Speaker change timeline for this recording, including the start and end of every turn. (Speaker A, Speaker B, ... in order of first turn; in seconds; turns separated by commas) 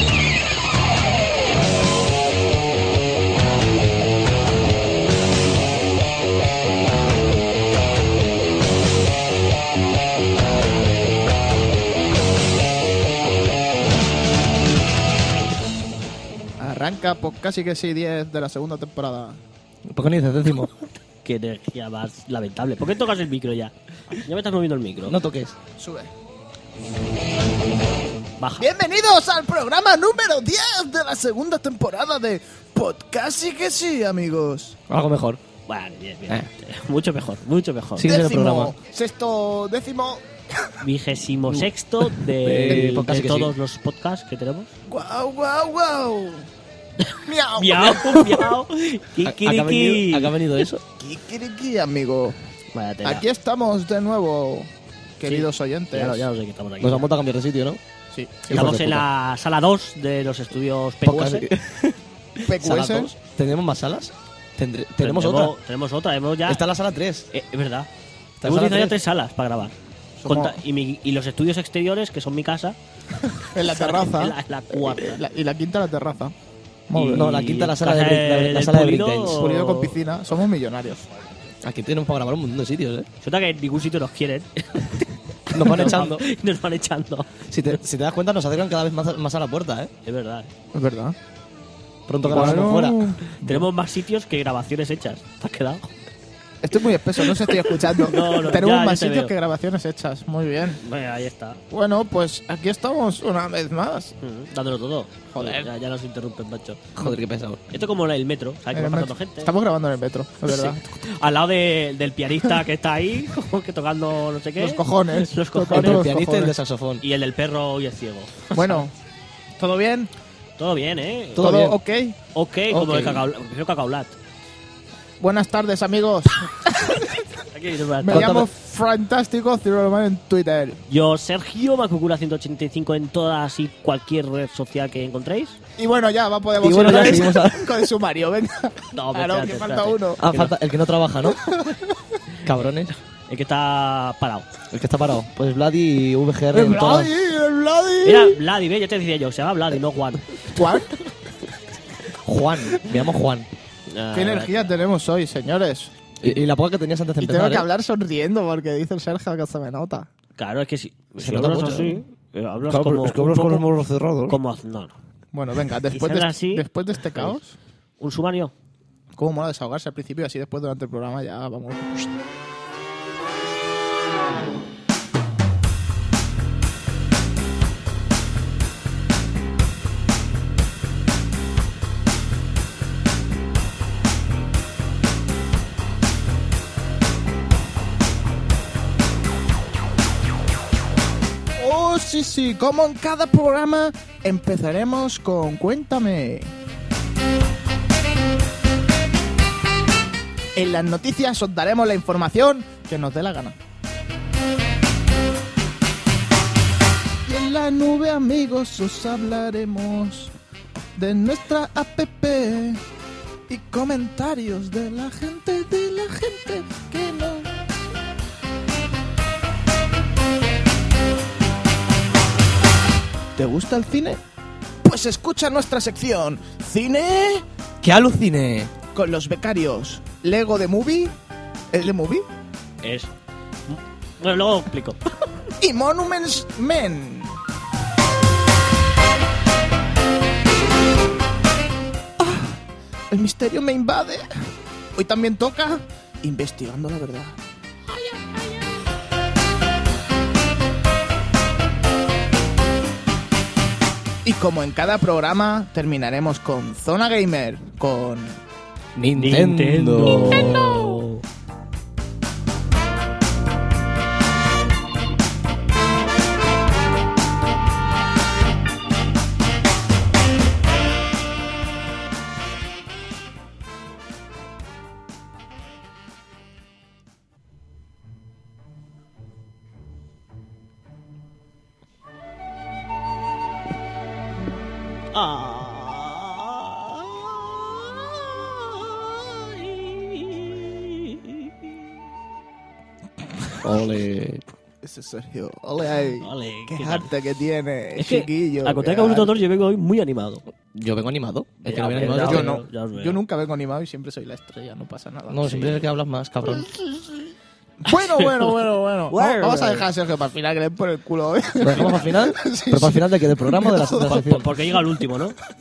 Speaker A: 16.6-19.4, Speaker B: 19.9-20.7, Speaker C: 21.2-25.2, Speaker B: 25.1-25.6, Speaker A: 25.8-26.1, Speaker C: 28.4-28.7, Speaker A: 28.6-34.8, Speaker B: 34.9-35.4, Speaker C: 35.7-38.1, Speaker B: 38.0-38.8, Speaker A: 38.0-40.8, Speaker C: 40.8-44.7, Speaker B: 42.4-43.5, Speaker A: 44.9-46.5, Speaker C: 47.0-50.4, Speaker A: 47.2-48.5, Speaker B: 49.2-50.8, Speaker A: 51.0-52.4, Speaker C: 52.7-53.3, Speaker A: 53.0-56.3, Speaker C: 55.2-57.1, Speaker B: 56.8-57.8, Speaker A: 58.1-58.7, Speaker B: 58.5-59.1, Speaker C: 58.5-61.5, Speaker B: 61.0-65.5, Speaker A: 62.4-63.1, Speaker C: 65.0-66.6, Speaker B: 66.5-67.3, Speaker C: 67.3-67.9, Speaker B: 68.4-69.0, Speaker C: 68.4-72.8, Speaker A: 70.2-70.6, Speaker A: 73.3-76.3, Speaker C: 73.6-75.2, Speaker A: 76.9-77.3, Speaker C: 76.9-80.0, Speaker B: 77.1-79.4, Speaker A: 79.3-81.1, Speaker B: 81.6-83.1, Speaker C: 83.2-87.7, Speaker B: 85.5-86.2, Speaker B: 87.5-89.9, Speaker C: 90.0-90.5, Speaker A: 90.7-91.2, Speaker B: 92.1-93.1, Speaker A: 92.3-93.7, Speaker C: 92.3-95.9, Speaker A: 96.6-100.8, Speaker C: 97.4-99.3, Speaker C: 100.8-101.6, Speaker A: 101.7-104.1, Speaker C: 104.2-106.9, Speaker A: 105.3-105.7, Speaker B: 107.0-107.7, Speaker C: 107.7-109.5, Speaker A: 108.7-110.8, Speaker C: 110.5-116.1, Speaker A: 114.6-116.6, Speaker B: 115.7-117.0, Speaker C: 117.0-118.8, Speaker A: 118.5-118.9, Speaker A: 119.6-120.1, Speaker C: 120.6-121.5, Speaker B: 121.3-121.8, Speaker A: 121.4-122.2, Speaker C: 122.3-124.2, Speaker B: 122.7-123.3, Speaker A: 125.2-127.2, Speaker C: 127.5-128.3, Speaker A: 128.0-130.8, Speaker B: 128.1-128.5, Speaker C: 130.9-135.6, Speaker A: 135.8-140.3, Speaker B: 136.6-137.8, Speaker C: 138.9-140.5, Speaker B: 140.2-141.5, Speaker A: 141.4-141.9, Speaker B: 142.4-142.9, Speaker C: 143.3-144.5, Speaker B: 144.7-147.1, Speaker A: 146.5-148.4, Speaker C: 148.0-150.5, Speaker A: 150.4-151.0, Speaker B: 152.2-153.5, Speaker C: 153.9-154.8, Speaker A: 154.1-156.3, Speaker B: 156.2-157.7, Speaker A: 157.2-160.1, Speaker C: 160.4-163.7, Speaker B: 161.2-162.0, Speaker B: 162.7-164.4, Speaker C: 164.3-164.9, Speaker A: 165.3-167.6, Speaker C: 165.9-167.4, Speaker C: 168.0-168.5, Speaker A: 169.2-172.1, Speaker A: 191.6-196.5, Speaker A: 200.6-203.6, Speaker A: 207.3-210.3, Speaker A: 211.0-212.8, Speaker A: 213.5-217.5, Speaker A: 223.4-224.2, Speaker A: 224.8-227.4, Speaker B: 227.8-228.7, Speaker A: 228.9-231.1, Speaker A: 231.7-232.2, Speaker C: 232.8-233.1, Speaker C: 233.7-235.1, Speaker A: 235.6-237.3, Speaker A: 242.2-244.3, Speaker A: 245.0-247.4, Speaker A: 247.9-248.8, Speaker A: 254.2-258.4, Speaker B: 258.9-260.6, Speaker C: 259.1-261.2, Speaker C: 285.1-291.5, Speaker B: 293.6-294.4, Speaker A: 294.8-299.4, Speaker C: 296.2-297.1, Speaker C: 298.0-300.4, Speaker B: 300.7-302.5, Speaker C: 301.6-303.2, Speaker A: 302.0-305.8, Speaker B: 305.3-306.7, Speaker A: 306.5-307.3, Speaker A: 307.8-314.4, Speaker C: 309.1-309.9, Speaker B: 311.6-314.5, Speaker C: 314.1-315.4